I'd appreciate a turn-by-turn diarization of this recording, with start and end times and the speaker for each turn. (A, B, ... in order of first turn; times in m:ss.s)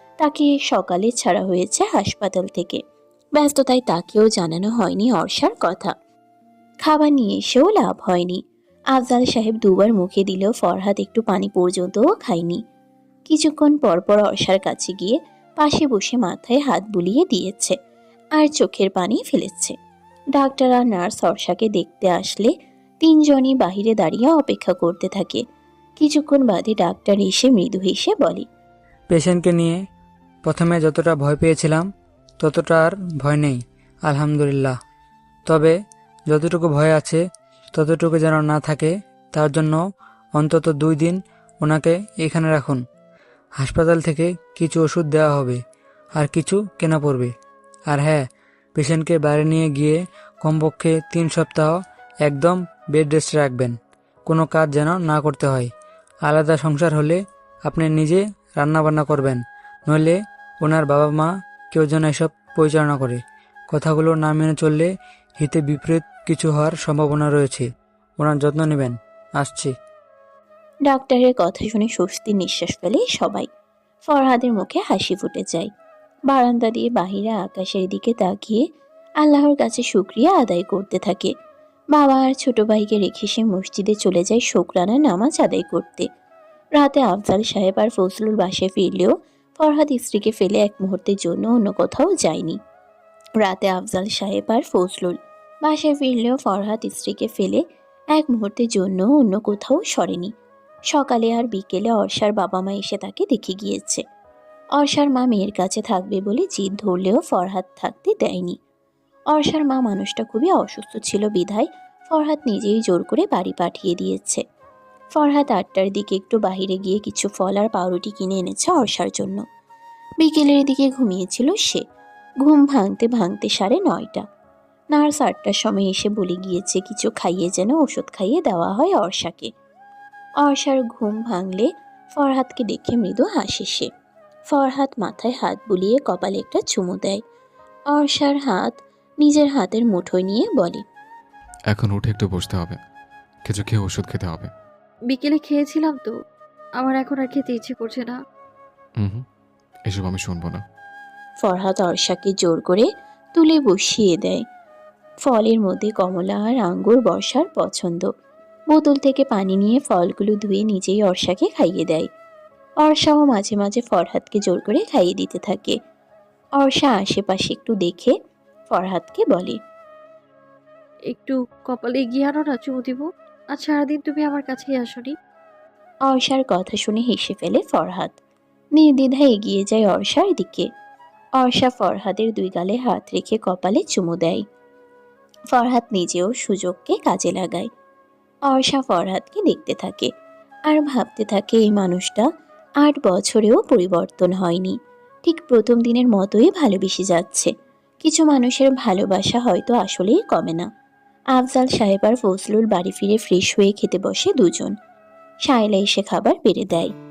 0:00.2-0:02.8 A
0:03.4-0:05.9 A
0:06.8-0:08.4 A
0:08.9-0:12.6 A
0:13.3-0:17.8 A
0:18.4-0:19.7 A
0:20.4-0:22.5 A
0:23.0-0:25.4 A
0:26.0-0:28.4 A
0:29.1-0:29.8 B
0:30.4-0:31.9 B
0:32.4-0:34.8 B
0:35.5-0:35.8 B
0:36.3-0:37.2 B
0:37.7-0:39.8 B
0:40.4-0:42.8 B
0:43.6-0:45.6 B
0:46.2-0:47.3 B
0:47.9-0:48.2 B
0:48.8-0:55.7 B
0:56.2-1:03.2 B
1:03.7-1:07.7 B
1:08.2-1:09.7 B
1:10.9-1:13.5 A
1:14.1-1:15.7 A
1:16.3-1:18.6 A
1:19.2-1:21.3 A
1:21.9-1:26.1 A
1:26.8-1:32.6 A
1:33.4-1:37.6 A
1:38.1-1:40.3 A
1:40.9-1:44.0 A
1:44.8-1:48.6 A
1:49.3-1:54.4 A
1:55.2-1:59.4 A
2:00.2-2:01.8 A
2:02.4-2:04.2 A
2:04.9-2:09.5 A
2:10.4-2:13.9 A
2:14.5-2:17.2 A
2:17.9-2:20.8 A
2:21.7-2:22.8 C
2:23.4-2:24.5 C
2:25.1-2:26.1 D
2:26.8-2:28.2 D
2:29.0-2:29.2 C
2:29.9-2:30.6 C
2:31.4-2:34.4 A
2:35.2-2:38.1 A
2:38.7-2:42.1 A
2:42.8-2:45.8 A
2:46.6-2:48.1 A
2:48.7-2:49.6 A
2:51.1-2:55.1 D
2:56.1-2:58.1 A
2:58.8-3:00.7 A
3:01.4-3:04.4 A
3:05.5-3:07.7 A
3:08.5-3:10.1 A
3:10.7-3:12.3 A
3:12.8-3:17.5 A
3:18.0-3:20.7 A
3:21.3-3:24.7 A
3:25.4-3:26.9 A